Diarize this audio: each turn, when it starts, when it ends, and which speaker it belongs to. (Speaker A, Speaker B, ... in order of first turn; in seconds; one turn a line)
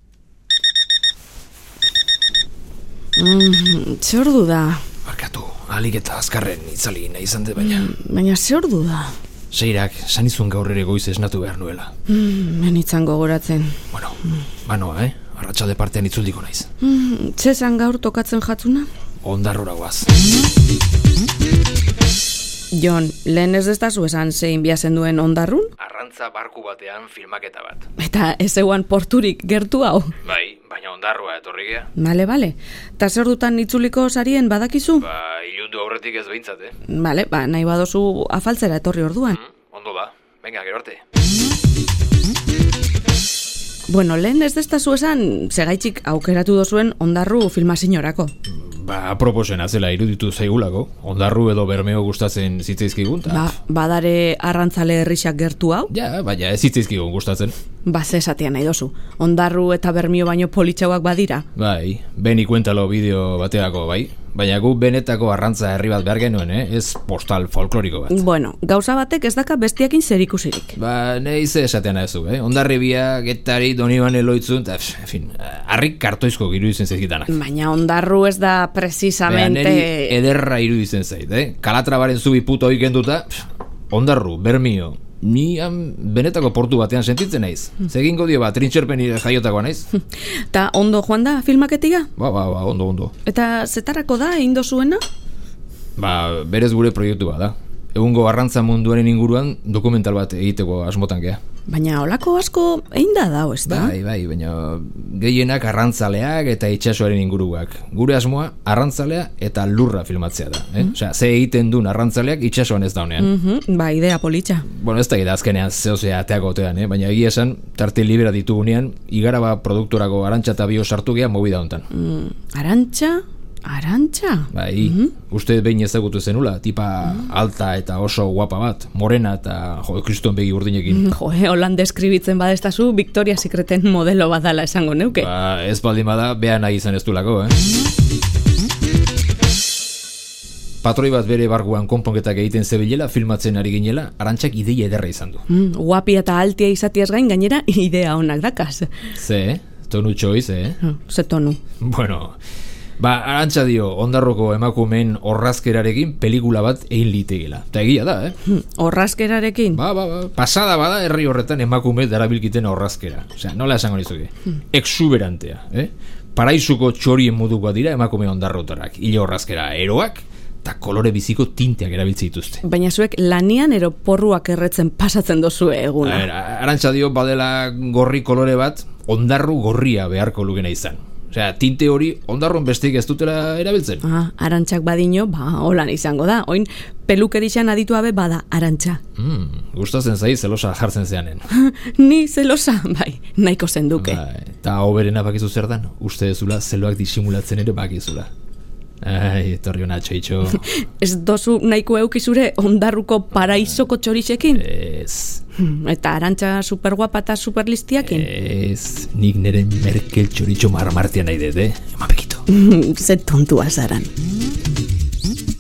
Speaker A: 3.2-4.9
Speaker B: 5.0-7.9
Speaker A: 7.6-9.2
Speaker B: 9.5-11.9
Speaker A: 12.1-13.8
Speaker B: 13.9-16.7
Speaker A: 16.8-18.9
Speaker B: 19.2-20.1
Speaker A: 22.7-25.7
Speaker B: 25.8-27.9
Speaker A: 28.0-30.2
Speaker B: 30.2-31.9
Speaker A: 32.0-35.1
Speaker B: 35.0-36.8
Speaker A: 36.9-39.4
Speaker B: 39.4-41.0
Speaker A: 43.9-48.3
Speaker B: 48.5-53.5
Speaker A: 53.3-55.9
Speaker B: 55.9-57.5
Speaker A: 57.9-61.5
Speaker B: 61.6-68.2
Speaker A: 68.1-70.8
Speaker B: 70.8-77.3
Speaker A: 77.3-80.2
Speaker B: 79.3-89.9
Speaker A: 90.5-92.1
Speaker B: 92.2-93.1
Speaker A: 93.2-95.0
Speaker B: 96.0-101.4
Speaker A: 101.7-104.0
Speaker B: 103.7-113.3
Speaker A: 113.2-114.7
Speaker B: 114.7-121.9
Speaker A: 121.9-125.1
Speaker B: 124.5-131.1
Speaker A: 130.9-135.3
Speaker B: 135.2-137.6
Speaker B: 140.8-145.4
Speaker A: 145.5-148.9
Speaker B: 149.2-150.8
Speaker A: 150.8-151.6
Speaker B: 151.8-152.4
Speaker B: 153.0-158.4
Speaker A: 158.5-159.8
Speaker B: 159.7-172.6
Speaker A: 172.6-176.3
Speaker B: 176.0-184.0
Speaker A: 184.0-189.0
Speaker B: 189.2-191.4
Speaker A: 191.5-194.2
Speaker B: 194.0-198.3
Speaker B: 199.0-200.7
Speaker A: 200.6-204.6
Speaker B: 204.5-205.4
Speaker A: 205.6-208.3
Speaker B: 208.0-212.5
Speaker A: 212.5-214.1